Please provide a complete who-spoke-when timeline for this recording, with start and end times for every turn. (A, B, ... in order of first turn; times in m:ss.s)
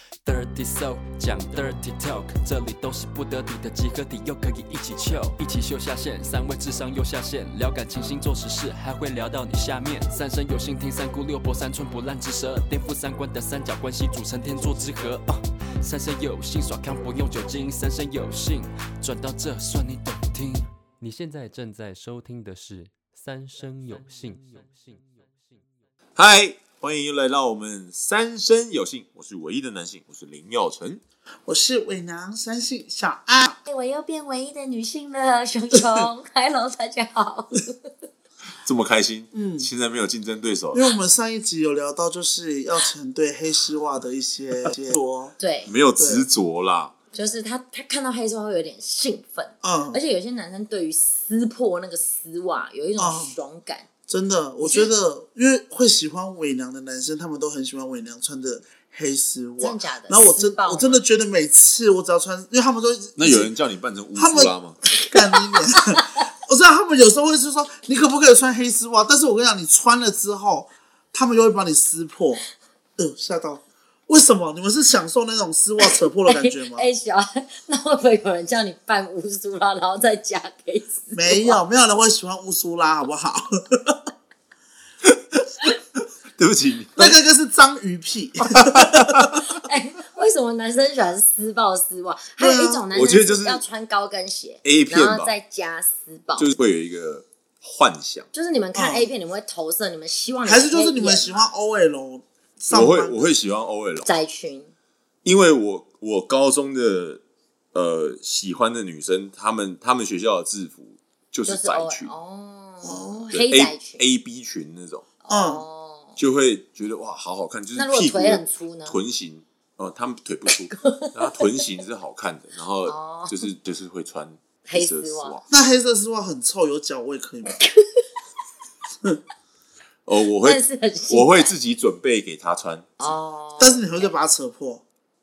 0:00.2-0:25.0 A
0:26.2-0:31.0 B
0:31.5-0:33.6 C
0:33.6-0:37.9 D
0:38.6-0:40.9 B
0:39.3-0:39.7 C
0:40.7-0:45.3 C
0:45.4-0:45.7 D
0:45.7-0:46.9 B
0:46.0-0:46.2 C
0:47.1-0:53.9 D
0:49.6-0:50.0 C
0:53.0-0:53.4 C
0:54.1-1:03.5 C
0:54.6-0:54.9 D
0:59.6-1:01.0 D
1:03.2-1:04.8 B
1:04.2-1:12.4 C
1:13.0-1:16.9 C
1:16.3-1:21.6 D
1:21.1-1:24.0 C
1:26.4-1:27.2 B
1:27.0-1:29.3 C
1:28.8-1:29.3 B
1:29.4-1:36.5 D
1:32.4-1:32.8 C
1:32.9-1:33.6 B
1:34.6-1:35.3 B
1:36.4-1:38.3 B
1:38.3-1:41.5 D
1:38.8-1:39.1 C
1:40.4-1:43.3 C
1:42.7-1:44.1 B
1:44.0-1:44.7 D
1:45.2-1:47.2 B
1:47.7-1:52.1 B
1:51.5-1:54.0 D
1:52.8-1:53.3 C
1:53.3-1:55.0 B
1:55.2-1:56.2 D
1:55.3-1:55.6 C
1:56.2-2:05.5 B
1:57.8-1:59.0 D
2:00.7-2:01.6 D
2:02.8-2:03.5 D
2:04.7-2:05.4 D
2:05.5-2:07.6 C
2:07.6-2:08.0 D
2:10.1-2:13.0 B
2:10.4-2:11.5 D
2:13.0-2:14.0 D
2:13.6-2:14.8 C